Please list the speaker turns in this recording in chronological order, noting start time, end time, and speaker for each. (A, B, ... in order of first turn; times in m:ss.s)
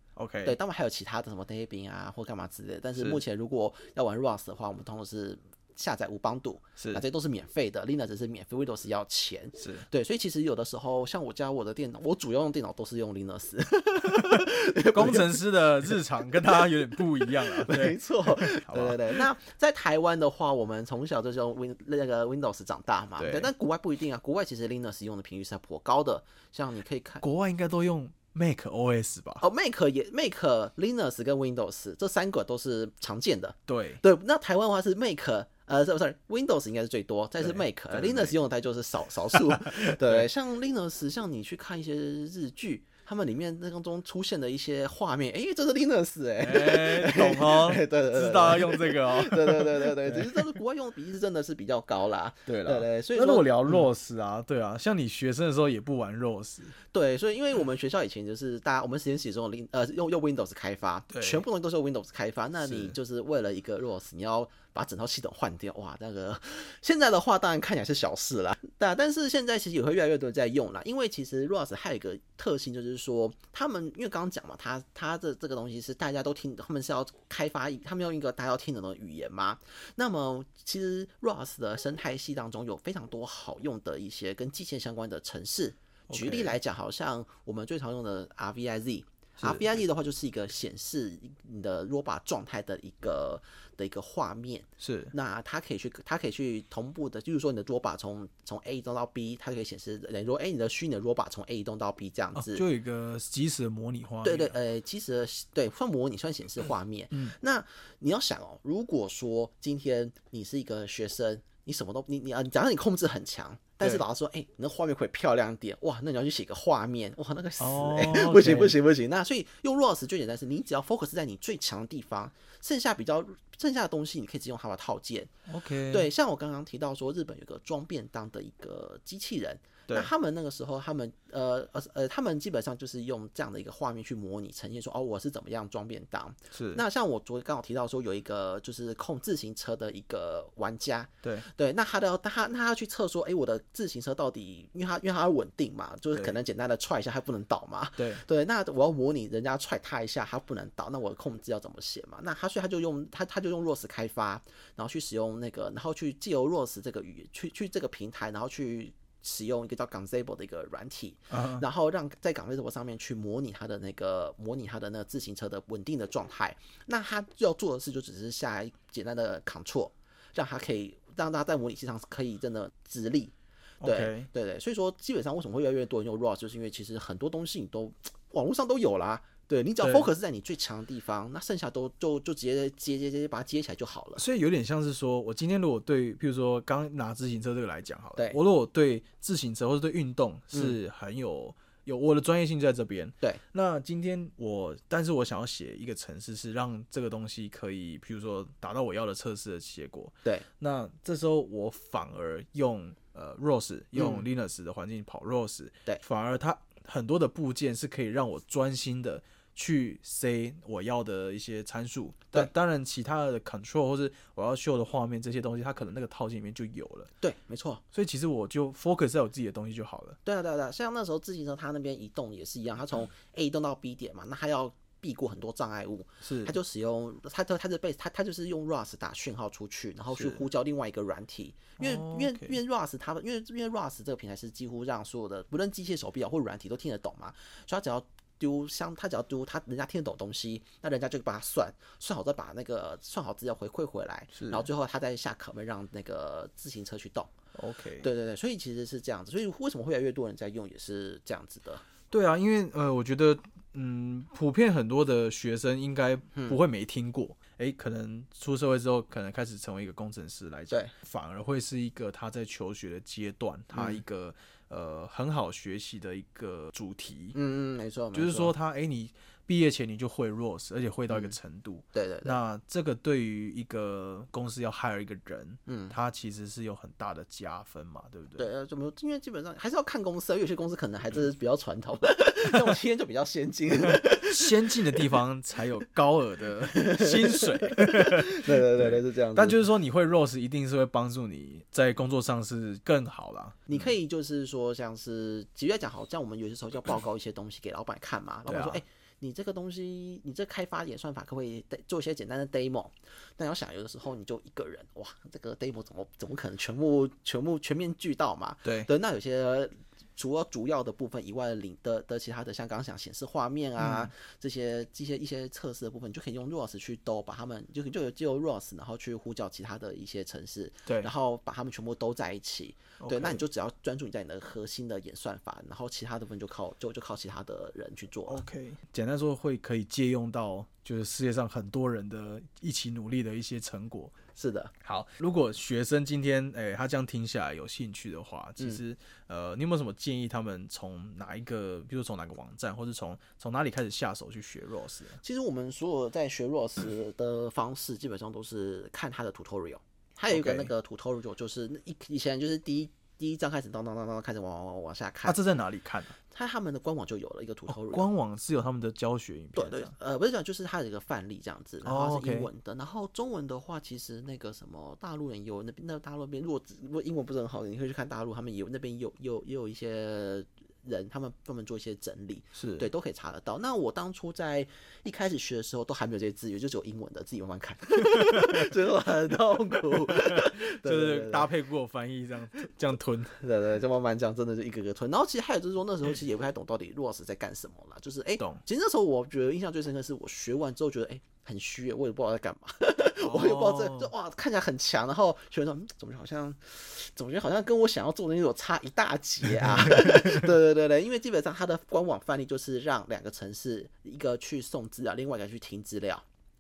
0:00.2-0:00.6 A
0:00.4-0:27.2 B
0:06.8-0:07.0 A
0:09.6-0:09.9 A
0:14.2-0:19.2 A
0:23.2-0:23.5 A
0:27.2-0:29.4 A
0:29.4-0:53.9 B
0:33.7-0:34.0 A
0:37.4-0:38.4 A
0:39.6-0:40.2 A
0:46.4-0:50.5 A
0:52.5-0:56.8 A
0:56.9-1:42.6 B
1:01.1-1:01.4 A
1:02.6-1:03.0 A
1:26.1-1:26.6 A
1:29.4-1:29.7 A
1:34.8-1:35.1 A
1:42.4-1:44.6 A
1:44.2-2:05.3 B
1:57.6-1:58.8 A
2:05.5-2:06.1 A
2:05.9-3:04.2 B
2:16.5-2:16.8 A
2:28.0-2:28.2 A
2:41.3-2:41.6 A
2:53.8-2:54.3 A
2:59.8-3:00.1 A
3:04.2-3:37.1 A
3:10.5-3:10.8 B
3:24.0-3:24.2 B
3:37.2-3:37.8 B
3:37.9-3:40.2 A
3:40.2-4:07.3 B
3:46.2-3:46.6 A
3:50.1-3:50.4 A
3:51.8-3:52.6 A
4:04.3-4:04.7 A
4:07.6-4:08.1 A
4:08.0-4:11.9 B
4:12.1-4:27.4 A
4:23.7-4:24.0 B
4:27.3-4:28.5 B
4:28.1-4:38.5 A
4:31.9-4:32.4 B
4:35.7-4:36.0 B
4:38.4-4:45.0 B
4:43.8-4:53.9 A
4:46.7-4:49.7 B
4:53.7-5:28.4 B
4:58.5-4:58.8 A
5:13.8-5:14.1 A
5:23.0-5:23.4 A
5:28.3-5:34.2 A
5:34.4-5:34.7 B
5:34.8-5:45.2 A
5:45.2-5:55.4 B
5:50.3-5:50.7 A
5:55.2-5:56.2 A
5:56.2-5:58.1 B
5:57.7-5:59.9 A
5:59.6-6:21.5 B
6:01.8-6:02.5 A
6:12.6-6:12.9 A
6:18.1-6:18.7 A
6:20.1-6:23.4 A
6:23.4-6:46.2 B
6:28.4-6:28.6 A
6:33.2-6:34.1 A
6:39.6-6:40.5 A